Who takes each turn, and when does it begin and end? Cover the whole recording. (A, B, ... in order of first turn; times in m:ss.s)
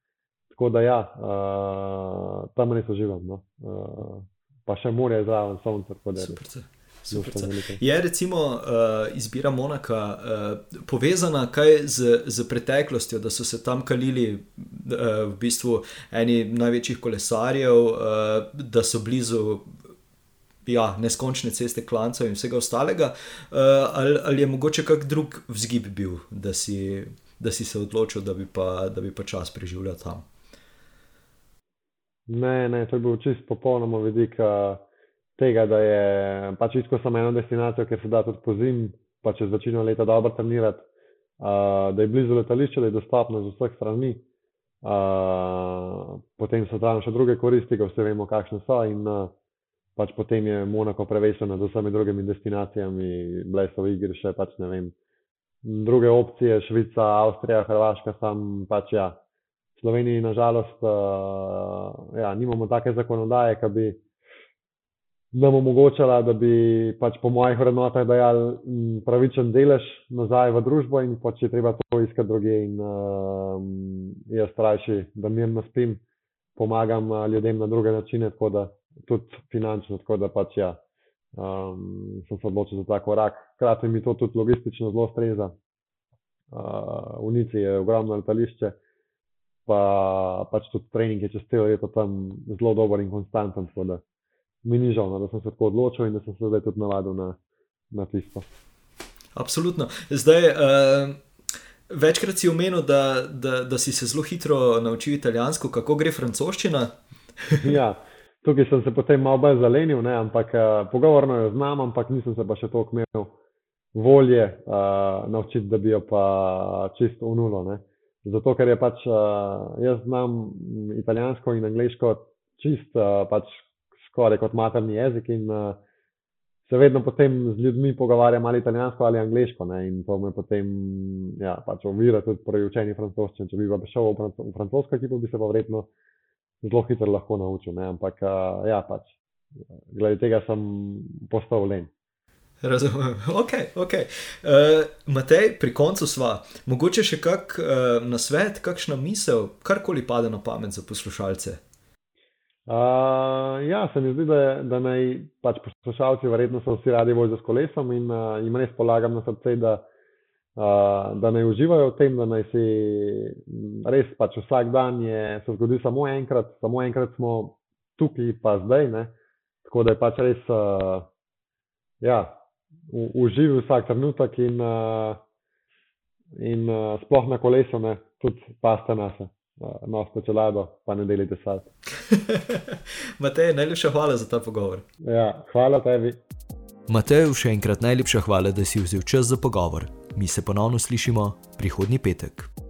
0:00.5-0:06.4 A
0:06.2-0:19.7 B
0:07.1-0:07.8 A
0:20.6-0:30.3 B
0:32.3-0:34.8 A
0:35.4-0:40.9 A
0:41.4-0:44.2 A
0:44.8-0:49.3 A
0:50.0-0:54.9 A
0:55.6-0:59.2 A
0:59.8-1:04.0 A
1:05.3-1:16.0 A
1:16.6-1:20.8 A
1:21.4-1:25.6 A
1:26.5-1:28.8 A
1:29.7-1:34.0 A
1:34.6-1:37.4 A
1:37.9-1:38.5 A
1:39.4-1:41.2 B
1:41.9-1:47.8 B
1:47.6-1:53.4 A
1:53.9-2:05.8 A
2:06.7-2:15.9 A
2:16.6-2:19.2 A
2:19.9-2:21.9 A
2:22.6-2:31.6 B
2:32.7-2:39.9 A
2:40.6-2:49.1 A
2:49.6-2:51.1 A
2:52.0-2:52.4 A
2:52.9-2:55.2 A
2:56.4-3:01.7 A
3:02.1-3:04.8 B
3:05.0-3:06.2 A
3:06.9-3:12.5 B